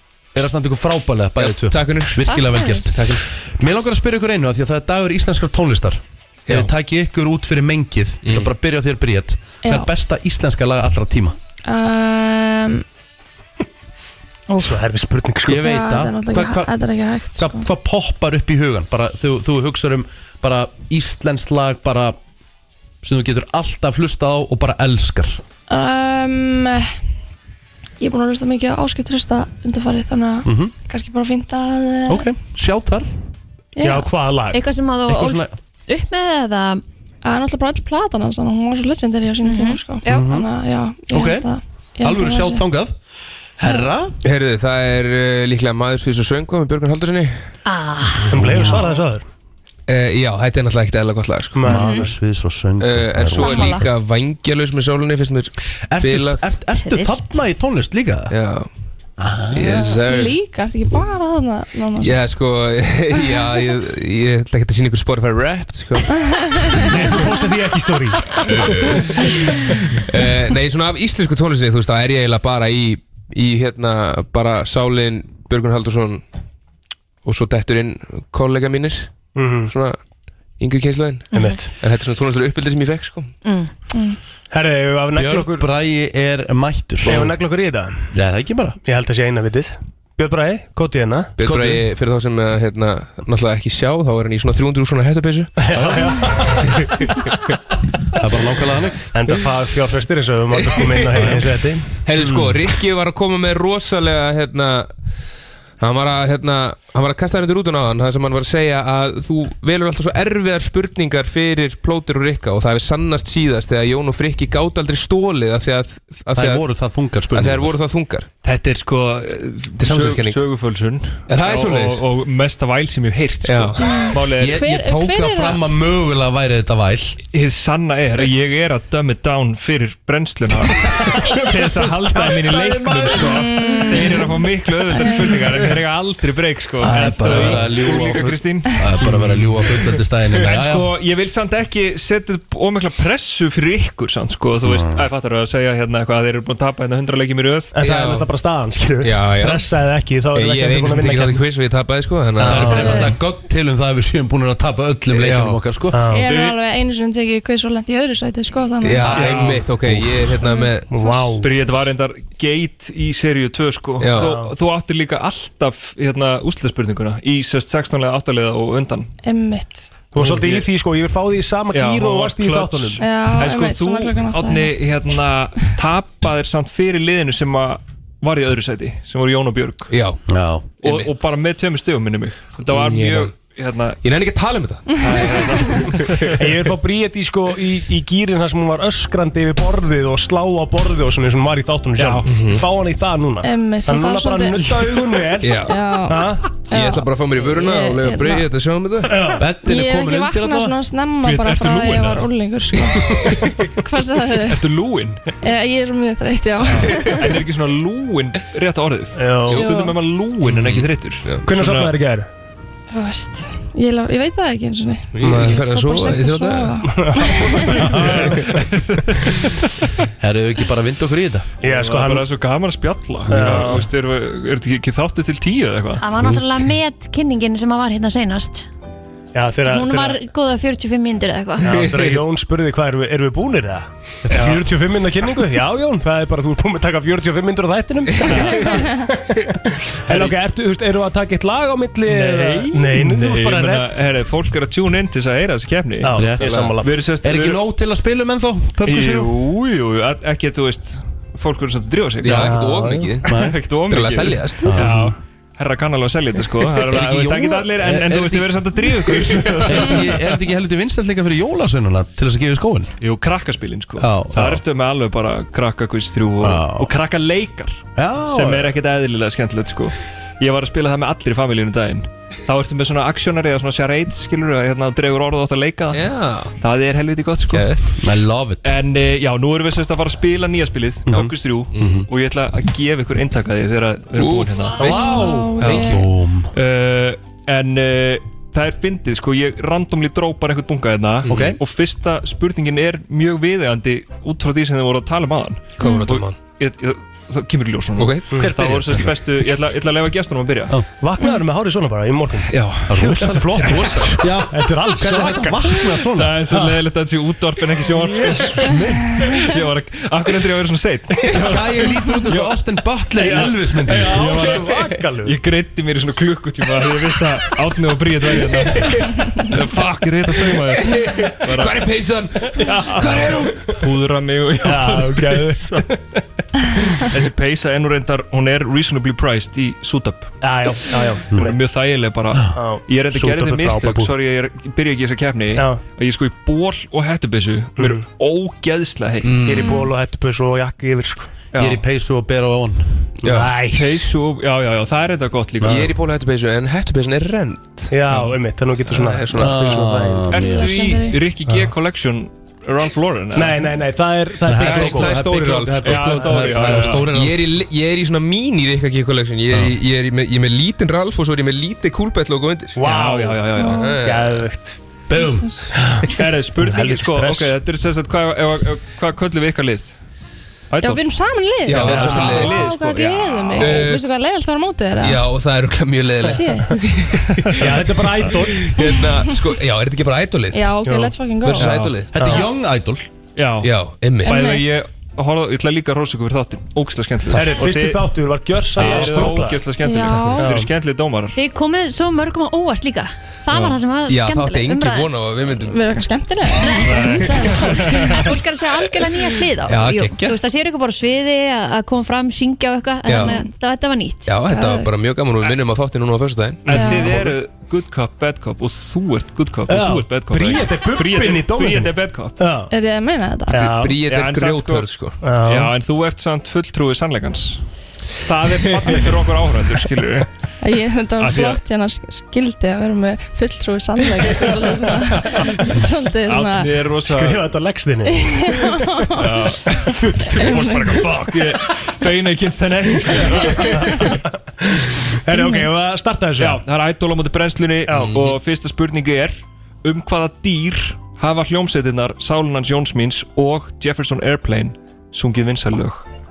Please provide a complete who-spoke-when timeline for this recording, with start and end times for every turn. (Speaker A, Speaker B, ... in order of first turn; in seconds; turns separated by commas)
Speaker A: 0.3-11.4, Speaker B: 1.4-2.3, Speaker B: 8.2-8.5, Speaker C: 9.6-9.9, Speaker C: 11.6-12.8, Speaker D: 14.5-15.7, Speaker A: 15.4-16.7, Speaker C: 15.6-17.6, Speaker A: 17.3-22.2, Speaker A: 23.0-25.4, Speaker C: 25.7-26.9, Speaker C: 28.0-32.2, Speaker A: 30.4-30.7, Speaker A: 32.1-33.1, Speaker C: 33.8-34.1, Speaker D: 33.8-34.6, Speaker E: 34.5-36.8, Speaker A: 35.1-35.5, Speaker C: 37.2-42.6, Speaker E: 39.4-39.8, Speaker A: 40.0-40.5, Speaker A: 41.1-41.5, Speaker A: 42.0-43.0, Speaker A: 43.6-44.2, Speaker B: 44.2-47.4, Speaker E: 47.6-48.4, Speaker D: 48.3-49.2, Speaker A: 48.3-48.8, Speaker B: 49.9-51.7, Speaker D: 51.5-52.0, Speaker A: 51.6-53.8, Speaker E: 51.7-52.1, Speaker B: 52.8-56.4, Speaker E: 53.3-53.9, Speaker A: 55.9-58.3, Speaker E: 56.8-57.3, Speaker B: 58.3-58.7, Speaker A: 59.2-59.8, Speaker B: 59.5-60.4, Speaker C: 59.8-62.1, Speaker B: 62.0-67.2, Speaker D: 66.9-68.7, Speaker B: 68.5-69.4, Speaker B: 70.0-76.2, Speaker B: 77.2-80.0, Speaker D: 79.3-79.7, Speaker B: 80.6-83.3, Speaker E: 81.3-81.6, Speaker D: 81.3-81.7, Speaker E: 83.4-83.7, Speaker D: 84.5-85.7, Speaker A: 85.1-87.3, Speaker D: 87.0-88.1, Speaker A: 88.1-88.8, Speaker D: 88.8-91.3, Speaker B: 91.4-95.6, Speaker A: 91.4-91.8, Speaker D: 95.6-96.9, Speaker A: 98.2-99.2, Speaker D: 99.1-102.5, Speaker B: 100.8-101.3, Speaker B: 102.0-104.9, Speaker B: 105.8-116.7, Speaker A: 116.3-117.7, Speaker B: 117.3-118.3, Speaker F: 118.4-124.6, Speaker B: 119.8-120.4, Speaker B: 121.3-122.0, Speaker B: 123.4-124.0, Speaker C: 123.8-125.6, Speaker A: 124.3-127.2, Speaker F: 127.2-138.7, Speaker A: 131.3-133.5, Speaker C: 133.4-134.3, Speaker C: 134.9-135.4, Speaker A: 136.8-140.9, Speaker F: 140.4-147.7, Speaker A: 144.6-145.1, Speaker D: 147.7-151.4, Speaker B: 147.8-148.3, Speaker B: 149.0-149.7, Speaker B: 150.3-153.0, Speaker D: 152.4-153.1, Speaker A: 152.4-156.0, Speaker C: 152.8-153.1, Speaker B: 155.1-155.6, Speaker D: 155.9-156.3, Speaker C: 156.1-159.4, Speaker F: 156.2-156.6, Speaker B: 158.8-160.9, Speaker D: 159.0-159.6, Speaker F: 159.1-159.7, Speaker C: 160.4-161.1, Speaker D: 160.9-161.5, Speaker F: 161.4-169.1, Speaker B: 164.0-164.3, Speaker D: 164.1-164.5, Speaker C: 169.2-169.9, Speaker D: 170.1-173.0, Speaker F: 170.2-170.7, Speaker F: 171.7-179.9, Speaker C: 173.0-174.7, Speaker B: 179.9-180.2, Speaker A: 180.3-180.7, Speaker F: 180.8-184.0, Speaker B: 180.8-181.1, Speaker B: 182.6-183.4, Speaker B: 184.0-186.3, Speaker F: 185.0-186.3, Speaker D: 186.3-196.5, Speaker F: 192.0-192.2, Speaker B: 192.2-192.6, Speaker C: 193.4-195.1, Speaker B: 195.4-195.9, Speaker C: 195.6-198.4, Speaker B: 196.6-199.3, Speaker D: 199.0-199.4, Speaker A: 199.4-200.8, Speaker C: 199.6-203.2, Speaker F: 201.2-202.3, Speaker C: 203.8-204.6, Speaker F: 204.4-205.3, Speaker C: 205.4-207.3, Speaker F: 206.7-211.9, Speaker D: 209.2-209.7, Speaker C: 209.6-209.9, Speaker B: 210.4-211.4, Speaker D: 211.4-212.3, Speaker C: 212.9-217.8, Speaker B: 215.1-216.8, Speaker D: 215.2-215.6, Speaker D: 216.8-218.6, Speaker A: 217.7-218.4, Speaker F: 217.9-219.7, Speaker A: 220.2-221.5, Speaker D: 221.6-222.3, Speaker F: 221.6-226.0, Speaker A: 223.3-223.8, Speaker D: 223.3-223.9, Speaker E: 226.0-228.7, Speaker D: 229.3-230.2, Speaker E: 229.7-231.8, Speaker D: 231.6-243.9, Speaker A: 234.3-234.6, Speaker F: 238.2-238.8, Speaker F: 240.1-240.3, Speaker F: 242.1-247.6, Speaker D: 246.0-246.9, Speaker A: 246.1-246.4, Speaker A: 247.2-249.3, Speaker F: 248.8-252.6, Speaker B: 252.2-253.4, Speaker D: 252.3-253.2, Speaker A: 253.2-253.6, Speaker F: 253.3-260.1, Speaker B: 253.9-254.9, Speaker A: 254.6-254.9, Speaker D: 254.8-255.1, Speaker A: 256.8-262.9, Speaker F: 263.0-277.9, Speaker A: 264.0-264.6, Speaker A: 266.4-266.9, Speaker A: 267.9-268.8, Speaker B: 275.9-276.5, Speaker B: 277.5-277.8, Speaker A: 278.0-278.7, Speaker F: 278.6-300.8, Speaker A: 281.1-282.1, Speaker B: 284.1-285.3, Speaker D: 284.8-285.6, Speaker C: 284.8-286.0, Speaker A: 285.6-286.5, Speaker A: 291.2-291.6, Speaker B: 291.3-291.5, Speaker B: 295.8-296.3, Speaker C: 295.8-296.1, Speaker B: 298.0-298.3, Speaker A: 298.3-299.3, Speaker D: 301.0-306.8, Speaker F: 302.5-304.1, Speaker A: 302.9-306.4, Speaker F: 306.1-308.8, Speaker D: 307.9-309.3, Speaker F: 309.3-312.6, Speaker A: 311.3-314.3, Speaker F: 313.1-321.9, Speaker D: 313.2-315.4, Speaker B: 320.8-323.7, Speaker D: 322.5-323.6, Speaker F: 323.1-325.8, Speaker D: 324.6-326.2, Speaker F: 327.1-330.3, Speaker D: 330.4-331.6, Speaker F: 331.3-339.5, Speaker D: 332.5-334.1, Speaker D: 335.6-335.8, Speaker D: 337.8-338.0, Speaker B: 339.2-339.8, Speaker D: 339.3-341.3, Speaker C: 339.5-339.9, Speaker F: 341.5-341.8, Speaker A: 341.6-343.1, Speaker D: 343.2-344.1, Speaker B: 343.2-343.6, Speaker F: 343.7-345.9, Speaker D: 345.6-345.9, Speaker B: 345.6-347.9, Speaker D: 347.9-350.4, Speaker F: 348.1-348.3, Speaker B: 348.9-349.6, Speaker A: 349.3-350.7, Speaker F: 350.3-353.7, Speaker C: 350.4-351.2, Speaker D: 353.3-355.3, Speaker A: 354.4-357.5, Speaker B: 354.5-356.2, Speaker F: 355.8-357.1, Speaker D: 356.0-356.9, Speaker B: 357.1-362.8, Speaker D: 362.7-363.4, Speaker F: 362.8-363.9, Speaker C: 363.6-364.0, Speaker B: 363.6-364.4, Speaker D: 364.0-364.8, Speaker A: 365.1-365.7, Speaker C: 365.2-365.5, Speaker D: 365.8-367.5, Speaker F: 366.1-370.0, Speaker F: 370.7-371.1, Speaker C: 370.8-375.2, Speaker B: 371.6-372.6, Speaker F: 371.7-373.9, Speaker D: 371.8-372.5, Speaker B: 373.6-374.1, Speaker B: 375.0-380.8, Speaker C: 376.3-376.8, Speaker D: 377.6-378.7, Speaker C: 380.5-381.8, Speaker D: 380.8-381.1, Speaker B: 381.4-382.3, Speaker F: 381.5-382.0, Speaker A: 382.1-383.1, Speaker D: 382.1-382.4, Speaker F: 383.4-383.7, Speaker B: 383.6-384.4, Speaker F: 384.2-388.1, Speaker C: 384.2-384.8, Speaker D: 387.3-389.6, Speaker F: 388.7-391.4, Speaker C: 389.8-390.4, Speaker D: 390.4-390.7, Speaker E: 391.3-395.1, Speaker B: 393.5-395.9, Speaker C: 395.7-398.2, Speaker E: 396.6-404.3, Speaker F: 396.8-398.0, Speaker B: 397.0-397.8, Speaker B: 399.7-400.4, Speaker B: 403.1-403.4, Speaker C: 403.2-403.5, Speaker B: 404.2-407.0, Speaker C: 404.5-404.9, Speaker F: 406.6-412.4, Speaker C: 406.7-407.1, Speaker D: 406.7-407.3, Speaker D: 409.7-412.7, Speaker C: 412.7-413.7, Speaker D: 413.5-414.0, Speaker B: 413.6-415.2, Speaker F: 414.0-414.9, Speaker D: 415.2-415.7, Speaker F: 415.4-417.6, Speaker F: 418.2-420.3, Speaker C: 420.6-426.7, Speaker F: 421.2-421.6, Speaker D: 425.2-425.6, Speaker F: 426.2-427.4, Speaker D: 427.1-428.7, Speaker C: 428.1-429.2, Speaker F: 429.2-434.2, Speaker D: 429.8-431.4, Speaker C: 430.4-431.0, Speaker D: 433.1-436.6, Speaker C: 435.3-435.7, Speaker F: 436.4-446.0, Speaker D: 437.9-438.1, Speaker B: 438.0-438.4